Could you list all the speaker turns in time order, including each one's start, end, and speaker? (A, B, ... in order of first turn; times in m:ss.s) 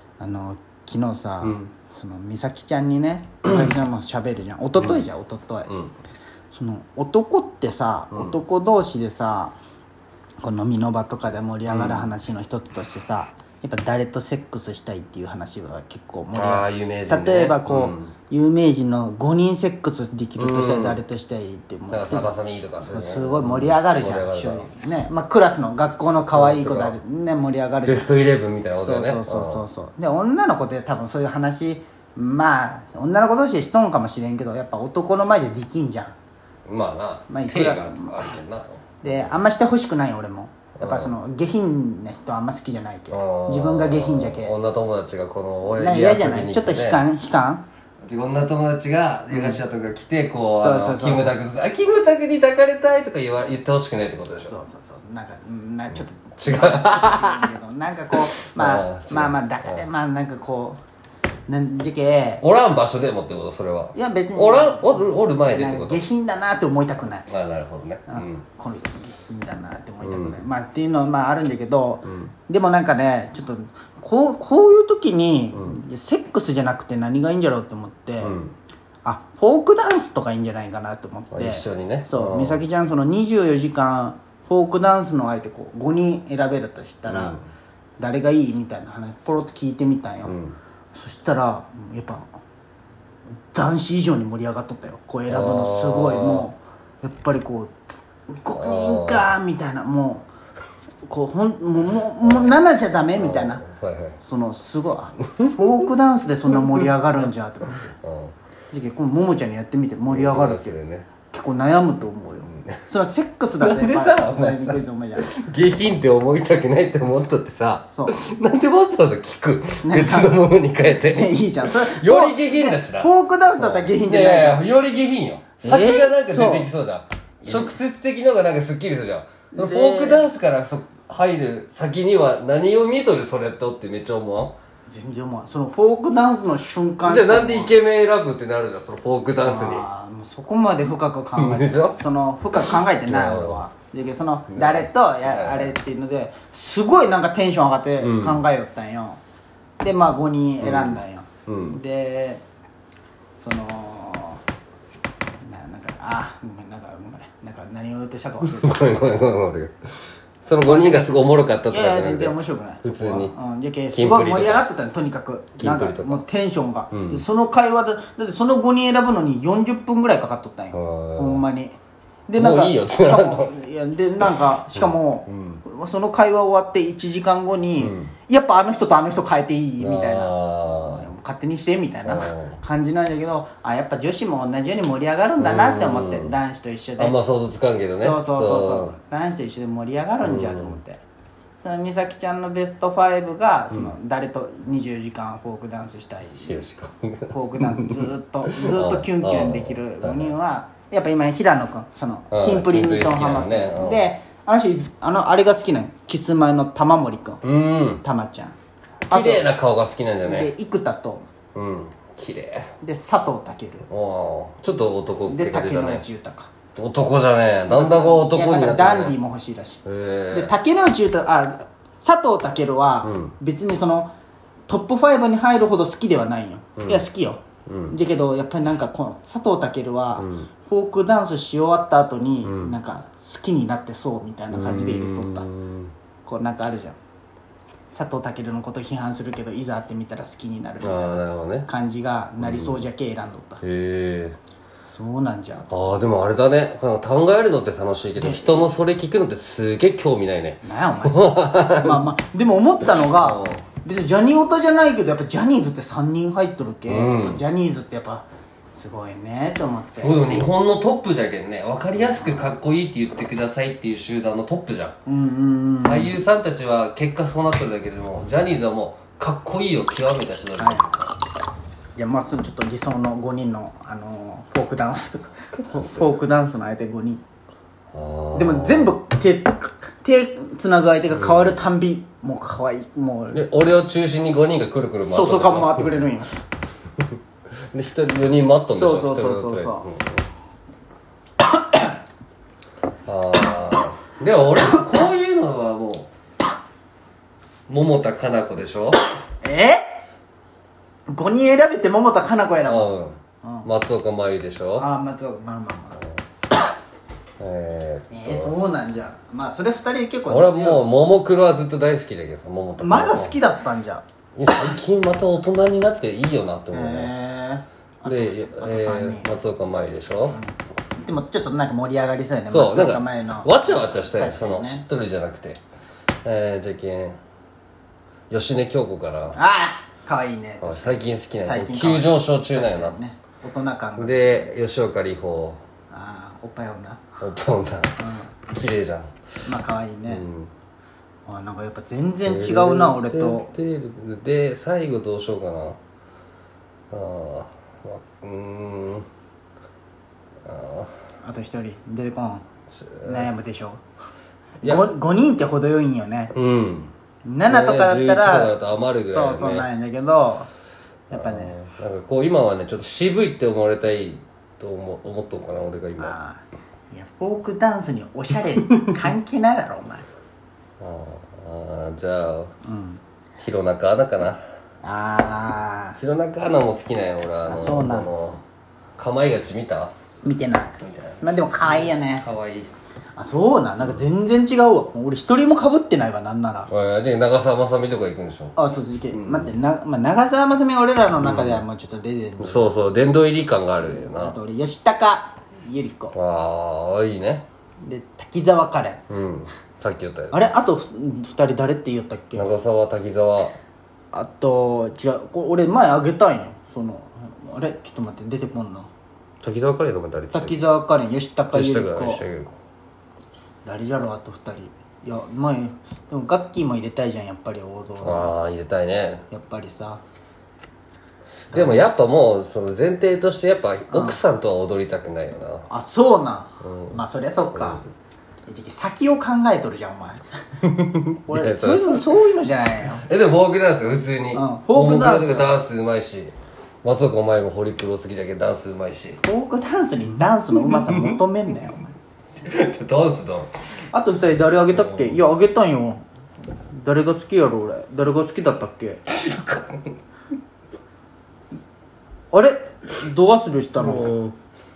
0:00.2-0:05.7 A
0:01.4-0:01.7 B
0:04.8-0:05.0 B
0:05.7-0:05.9 B
0:06.5-0:09.6 A
0:08.1-0:08.4 B
0:10.4-0:22.3 A
0:11.7-0:12.1 B
0:16.3-0:18.1 B
0:20.4-0:21.0 B
0:21.9-0:24.7 B
0:22.9-0:28.1 A
0:26.3-0:27.0 B
0:27.8-0:29.6 B
0:28.8-0:36.1 A
0:36.7-0:39.4 B
0:37.3-0:38.4 A
0:39.0-0:44.5 A
0:40.8-0:41.1 B
0:43.1-0:47.0 B
0:45.7-0:47.6 A
0:48.0-0:54.5 B
0:49.3-0:49.6 A
0:50.5-0:51.3 A
0:54.4-1:00.8 A
0:56.4-0:57.5 B
0:58.1-0:59.8 B
1:01.5-1:02.4 A
1:02.4-1:06.0 B
1:03.9-1:07.3 A
1:07.3-1:08.4 B
1:08.1-1:18.4 A
1:10.0-1:10.4 B
1:12.0-1:12.3 B
1:18.2-1:18.5 B
1:19.0-1:27.4 A
1:21.3-1:22.6 B
1:27.1-1:27.4 B
1:28.0-1:30.4 A
1:30.2-1:30.6 B
1:30.9-1:32.3 A
1:33.5-1:40.3 A
1:35.3-1:36.5 B
1:38.6-1:39.3 B
1:41.0-1:43.6 A
1:42.2-1:42.6 B
1:43.2-1:44.2 B
1:44.2-1:47.9 A
1:48.0-1:48.3 B
1:48.7-1:50.7 A
1:50.1-1:51.1 B
1:51.3-1:55.3 A
1:52.5-1:52.8 B
1:53.6-2:14.5 B
1:57.8-1:58.3 A
1:59.8-2:00.4 A
2:01.0-2:04.6 A
2:05.6-2:06.7 A
2:07.4-2:07.7 A
2:09.5-2:10.3 A
2:14.9-2:17.7 A
2:17.0-2:19.8 B
2:19.4-2:29.2 A
2:21.4-2:23.6 B
2:24.5-2:25.7 B
2:28.0-2:28.4 B
2:29.8-2:32.4 A
2:30.6-2:31.8 B
2:33.4-2:34.4 A
2:35.4-2:39.2 A
2:38.4-2:39.7 B
2:40.4-2:43.3 B
2:40.6-2:51.8 A
2:43.9-2:44.7 B
2:45.6-2:46.2 B
2:46.9-2:47.2 B
2:50.7-2:51.4 B
2:52.3-3:07.1 A
2:52.4-2:53.5 B
2:54.2-2:55.6 B
2:57.8-2:58.1 B
2:59.8-3:01.0 B
3:02.0-3:02.6 B
3:05.4-3:06.3 B
3:07.0-3:08.9 B
3:08.0-3:11.0 A
3:10.2-3:10.8 B
3:11.6-3:16.6 A
3:16.4-3:20.3 B
3:17.3-3:27.4 A
3:22.3-3:24.0 B
3:27.4-3:28.0 B
3:28.0-3:28.5 A
3:29.1-3:29.5 A
3:29.1-3:30.5 B
3:30.2-3:31.3 A
3:31.5-3:32.7 B
3:32.8-3:33.8 A
3:33.9-3:36.0 B
3:35.3-3:36.5 A
3:36.7-3:39.1 B
3:37.7-3:44.1 A
3:39.8-3:40.5 B
3:43.0-3:43.3 B
3:44.7-3:55.5 A
3:46.8-3:47.0 B
3:47.7-3:48.0 B
3:50.2-3:50.5 B
3:52.4-3:52.8 B
3:54.5-3:55.9 B
3:56.2-3:57.0 A
3:57.9-4:03.6 A
4:00.8-4:01.7 B
4:02.4-4:02.8 B
4:03.6-4:04.4 B
4:04.9-4:05.7 A
4:05.7-4:12.0 B
4:08.2-4:08.7 A
4:10.6-4:20.3 A
4:13.0-4:13.6 B
4:16.9-4:17.4 B
4:20.0-4:25.0 B
4:22.0-4:22.5 A
4:25.0-4:26.2 A
4:25.8-4:31.1 B
4:30.6-4:30.8 A
4:32.0-4:37.2 A
4:35.5-4:36.0 B
4:37.9-4:38.9 B
4:38.3-4:43.4 A
4:41.1-4:41.6 B
4:43.3-4:45.9 B
4:45.0-4:46.3 A
4:47.7-4:50.2 B
4:48.7-4:49.9 A
4:53.0-4:56.1 B
4:57.7-4:59.0 B
4:59.4-4:59.8 A
5:01.1-5:02.9 A
5:02.6-5:04.9 B
5:03.4-5:03.7 A
5:04.8-5:06.0 A
5:07.4-5:08.5 B
5:08.1-5:10.8 A
5:10.3-5:13.4 B
5:12.8-5:14.0 A
5:14.4-5:17.1 B
5:16.7-5:19.3 A
5:18.0-5:20.4 B
5:20.3-5:24.8 A
5:22.5-5:25.6 B
5:26.2-5:27.2 B
5:28.3-5:29.4 B
5:29.3-5:34.5 A
5:30.6-5:33.0 B
5:34.0-5:35.6 B
5:35.9-5:37.0 A
5:37.2-5:39.1 B
5:38.0-5:38.3 A
5:39.4-5:40.2 A
5:40.1-5:40.5 B
5:41.3-5:43.5 A
5:42.2-5:45.8 B
5:46.9-5:49.1 B
5:50.4-5:50.9 B
5:51.2-5:52.4 A
5:52.7-5:53.3 B
5:53.0-5:53.8 A
5:54.6-5:56.3 A
5:56.3-5:56.9 B
5:57.2-6:00.5 A
5:57.5-5:59.7 B
6:01.1-6:01.6 A
6:01.1-6:06.1 B
6:06.0-6:10.0 A
6:10.8-6:12.5 B
6:12.6-6:13.0 A
6:13.4-6:14.4 B
6:14.8-6:16.0 A
6:16.0-6:18.4 B
6:17.4-6:18.1 A
6:19.0-6:19.9 B
6:20.2-6:22.3 A
6:20.8-6:22.7 B
6:23.2-6:26.7 A
6:26.7-6:28.5 B
6:28.6-6:32.7 A
6:29.1-6:29.5 B
6:31.2-6:31.6 B
6:32.4-6:34.4 B
6:33.9-6:36.1 A
6:36.1-6:37.4 B
6:37.8-6:39.0 A
6:39.1-6:40.4 B
6:40.3-6:42.5 A
6:42.3-6:43.6 B
6:44.1-6:48.9 A
6:49.4-6:50.7 B
6:50.3-6:52.2 A
6:51.5-6:52.6 B
6:53.6-6:58.3 A
6:58.0-6:59.2 B
6:59.3-7:00.0 A
7:01.5-7:05.7 B
7:01.5-7:01.8 A
7:03.9-7:04.2 A
7:05.7-7:07.8 A
7:06.6-7:07.0 B
7:07.5-7:07.8 B
7:08.5-7:10.2 A
7:10.6-7:12.1 B
7:11.3-7:13.0 A
7:13.0-7:19.2 B
7:14.3-7:15.6 A
7:19.2-7:21.9 A
7:20.5-7:21.2 B
7:22.4-7:23.5 B
7:23.9-7:26.0 A
7:24.7-7:25.2 B
7:26.7-7:29.0 A
7:29.1-7:29.9 B
7:32.3-7:34.2 A
7:33.8-7:34.3 B